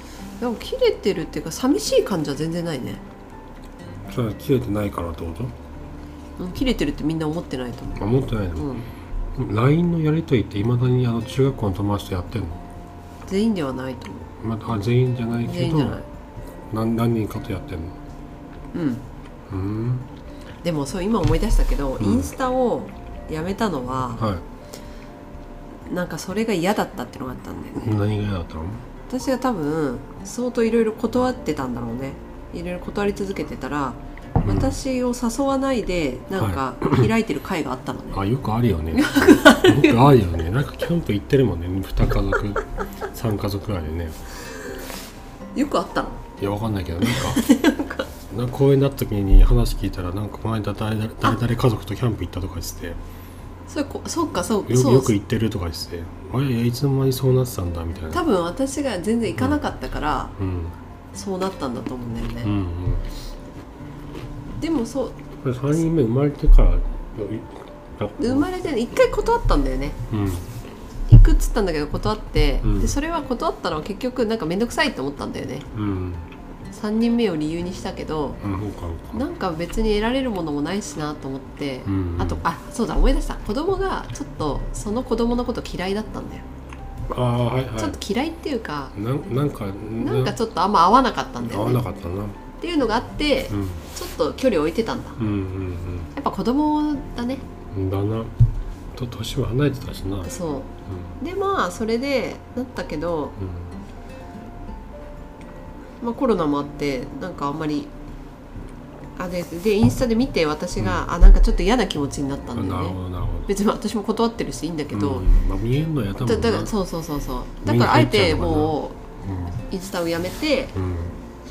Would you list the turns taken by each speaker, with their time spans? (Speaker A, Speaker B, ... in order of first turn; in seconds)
Speaker A: 0.4-3.0, 6.4-8.9, 13.3-14.3, 15.4-16.1, 18.7-19.0, 20.6-24.3, 25.9-27.9, 29.1-38.2, 38.9-40.1, 45.5-46.2, 47.0-48.1, 53.7-55.1, 58.1-60.3, 61.1-62.5, 64.6-65.2, 68.2-70.0, 71.1-75.7, 76.7-78.4, 79.1-86.4, 87.8-88.9, 90.0-91.8, 92.6-95.2, 96.2-97.4, 100.2-100.7, 101.2-103.4, 106.0-107.9, 109.2-115.3, 116.2-119.0, 119.7-120.8
Speaker B: 4.1-5.5, 8.0-8.7, 9.3-12.6, 14.4-16.0, 16.7-18.0, 19.5-20.1, 22.0-22.3, 24.2-24.4, 27.8-28.8, 34.4-34.8, 36.4-37.1, 38.1-44.2, 46.4-47.4, 48.3-53.0, 54.7-58.2, 60.4-60.8, 62.4-63.1, 65.4-68.5, 70.1-70.5, 72.6-73.0, 75.7-76.3, 78.4-79.2, 81.9-82.4, 87.1-88.0, 88.9-90.4, 91.4-92.4, 93.5-93.8, 95.2-96.1, 97.7-98.3, 98.9-100.3, 100.9-101.1, 103.4-103.7, 110.8-111.1, 112.5-113.5, 114.9-116.7, 117.6-119.6, 120.8-121.2